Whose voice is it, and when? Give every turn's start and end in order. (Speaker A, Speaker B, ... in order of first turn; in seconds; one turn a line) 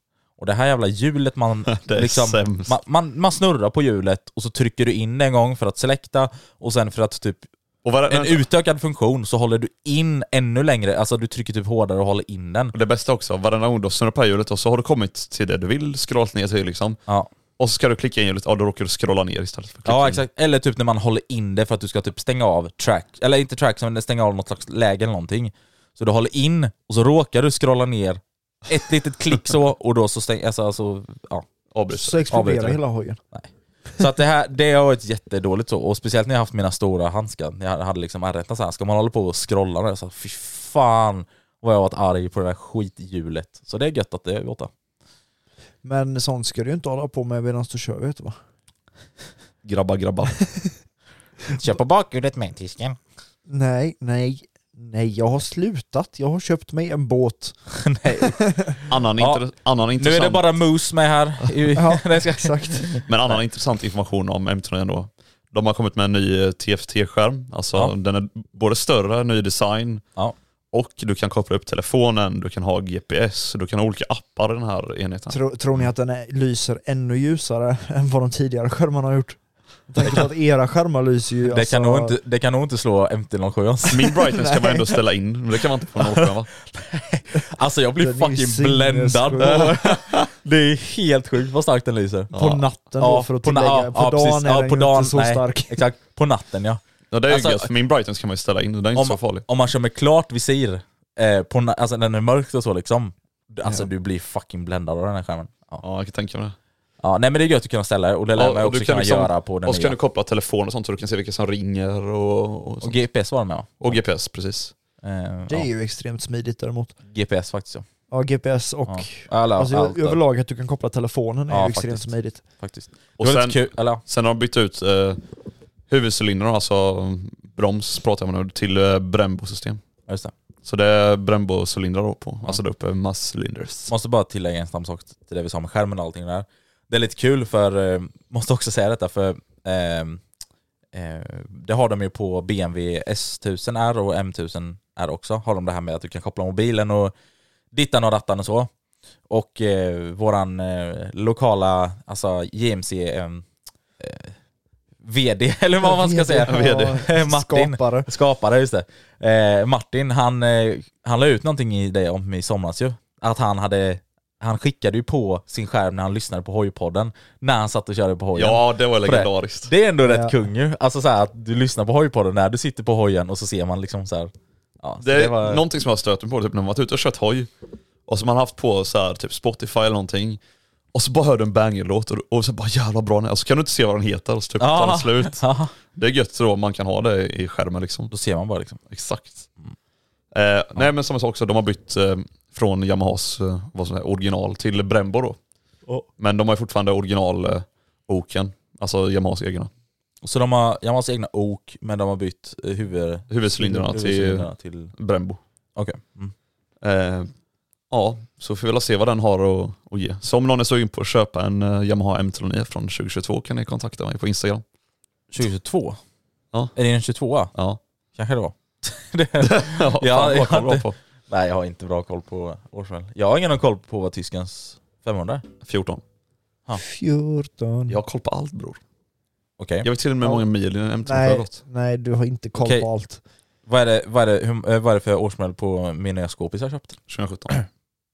Speaker A: 0.4-7.5
Speaker B: 1.7-2.7
Speaker B: 7.8-8.4
Speaker A: 8.1-12.7
Speaker B: 12.7-17.0
Speaker B: 17.6-20.2
Speaker A: 19.9-31.4
Speaker B: 31.7-32.4
Speaker C: 31.9-33.2
Speaker A: 32.3-32.8
Speaker A: 33.3-44.7
Speaker C: 45.8-48.4
Speaker B: 49.6-50.4
Speaker A: 51.5-53.0
Speaker C: 53.5-57.5
Speaker A: 57.7-58.4
Speaker C: 58.2-58.7
Speaker B: 58.9-60.5
Speaker A: 60.0-63.0
Speaker C: 61.7-63.0
Speaker B: 63.0-70.0
Speaker B: 70.7-75.4
Speaker C: 75.3-82.2
Speaker A: 81.5-84.2
Speaker B: 83.9-86.5
Speaker C: 84.3-84.8
Speaker A: 86.1-92.3
Speaker C: 88.0-89.8
Speaker B: 89.4-89.9
Speaker B: 92.3-92.6
Speaker C: 92.3-95.8
Speaker A: 93.0-97.7
Speaker B: 97.1-99.4
Speaker A: 99.0-105.8
Speaker B: 105.8-106.5
Speaker A: 107.0-110.0
Speaker B: 108.3-113.0
Speaker A: 112.8-114.0
Speaker B: 113.8-114.7
Speaker A: 115.0-115.7
Speaker C: 115.5-116.9
Speaker A: 117.1-117.8
Speaker C: 118.1-122.4
Speaker A: 118.9-120.2
Speaker A: 121.5-124.0
Speaker B: 123.2-125.2
Speaker B: 125.9-129.8
Speaker A: 130.1-130.3
Speaker B: 130.6-133.9
Speaker A: 133.9-140.2
Speaker A: 140.9-147.1
Speaker A: 147.7-148.7
Speaker A: 149.3-153.4
Speaker A: 154.0-154.3
Speaker A: 155.0-175.6
Speaker C: 155.8-158.1
Speaker B: 156.5-157.0
Speaker B: 168.3-169.7
Speaker C: 170.0-170.3
Speaker B: 175.0-177.5
Speaker B: 178.1-180.4
Speaker B: 180.9-188.1
Speaker A: 184.6-185.7
Speaker A: 188.1-188.8
Speaker B: 188.9-189.5
Speaker B: 190.3-195.4
Speaker B: 196.2-199.7
Speaker A: 200.2-204.9
Speaker B: 203.3-205.4
Speaker A: 205.8-206.3
Speaker B: 206.8-207.3
Speaker B: 207.9-214.6
Speaker A: 215.3-216.0
Speaker A: 216.7-217.5
Speaker A: 218.2-225.4
Speaker B: 219.4-220.9
Speaker B: 225.6-226.0
Speaker C: 226.8-228.0
Speaker B: 227.9-228.8
Speaker A: 229.6-229.9
Speaker B: 229.8-231.6
Speaker C: 231.0-233.2
Speaker A: 232.6-232.9
Speaker A: 233.7-237.0
Speaker B: 237.1-237.6